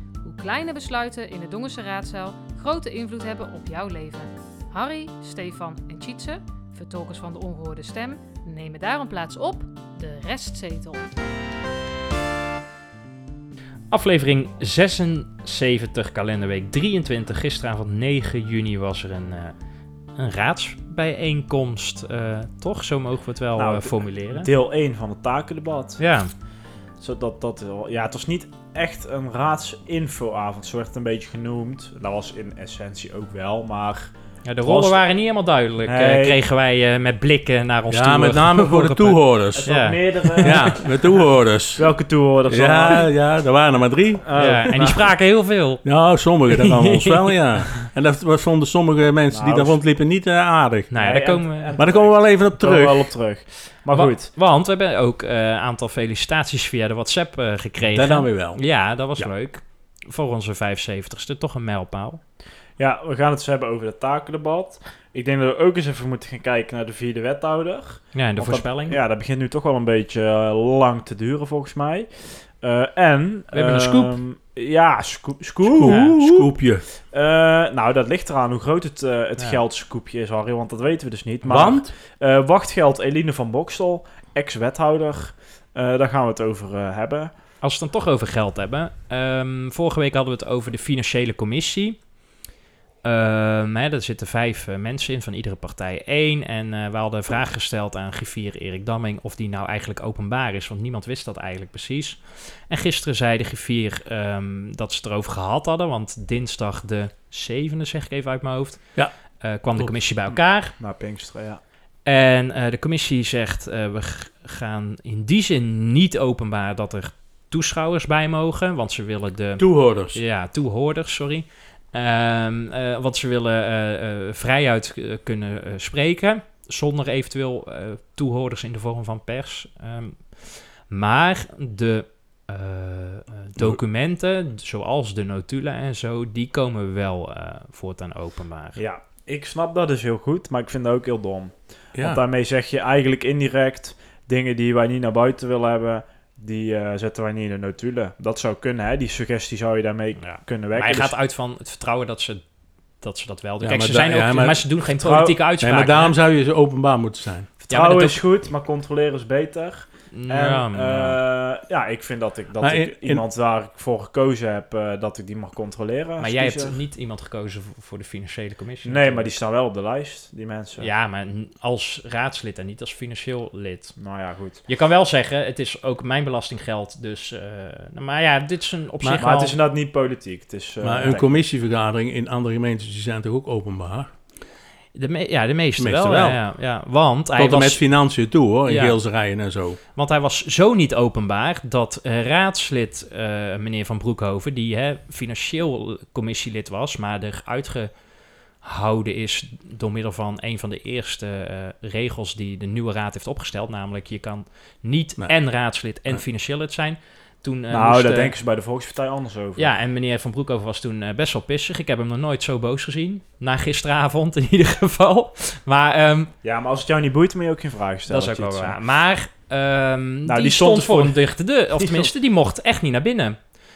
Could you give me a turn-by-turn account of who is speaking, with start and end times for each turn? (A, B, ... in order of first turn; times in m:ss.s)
0:00.2-0:11.1 A
0:13.9-0:19.5 B
0:20.2-0:24.5 B
0:23.6-0:26.0 C
0:26.0-0:26.3 B
0:27.0-0:34.1 C
0:34.4-0:41.0 B
0:34.6-0:35.0 C
0:35.8-0:36.4 C
0:37.9-0:39.7 D
0:39.5-0:41.0 C
0:40.4-0:41.9 D
0:41.8-0:43.1 C
0:42.4-0:44.2 D
0:44.2-0:45.0 C
0:44.4-0:45.8 B
0:45.8-0:50.9 D
0:46.5-0:47.8 B
0:49.3-0:49.8 C
0:50.9-0:51.8 B
0:51.0-0:54.3 C
0:51.8-0:53.1 D
0:53.9-1:02.2 B
0:57.9-0:58.6 D
1:02.8-1:27.3 C
1:08.1-1:09.0 B
1:13.5-1:14.1 B
1:15.6-1:16.8 D
1:15.9-1:16.2 B
1:21.5-1:21.9 D
1:27.6-1:32.0 B
1:33.0-1:48.9 B
1:49.4-1:50.8 B
1:50.8-1:51.6 C
1:52.1-2:18.8 B
1:59.6-2:00.2 D
2:18.8-2:31.1 C
2:22.0-2:22.2 D
2:30.2-2:32.4 B
2:33.0-2:36.2 B
2:33.6-2:34.7 D
2:35.0-2:35.4 C
2:35.6-2:37.5 D
2:37.7-2:38.2 B
2:37.7-2:46.8 C
2:40.1-2:41.2 B
2:42.6-2:43.2 D
2:46.2-2:49.3 B
2:48.8-2:50.9 C
2:50.8-2:54.0 B
2:54.0-2:54.6 C
2:54.7-2:59.6 B
2:59.0-2:59.3 D
2:59.2-3:01.4 C
3:00.8-3:04.1 D
3:05.0-3:07.8 B
3:05.8-3:06.4 D
3:07.4-3:09.8 D
3:08.7-3:09.0 B
3:10.0-3:17.9 B
3:18.6-3:28.3 B
3:27.7-3:29.7 C
3:29.6-3:36.3 B
3:36.4-3:38.8 C
3:38.1-3:43.4 B
3:40.3-3:41.2 C
3:41.8-3:42.1 C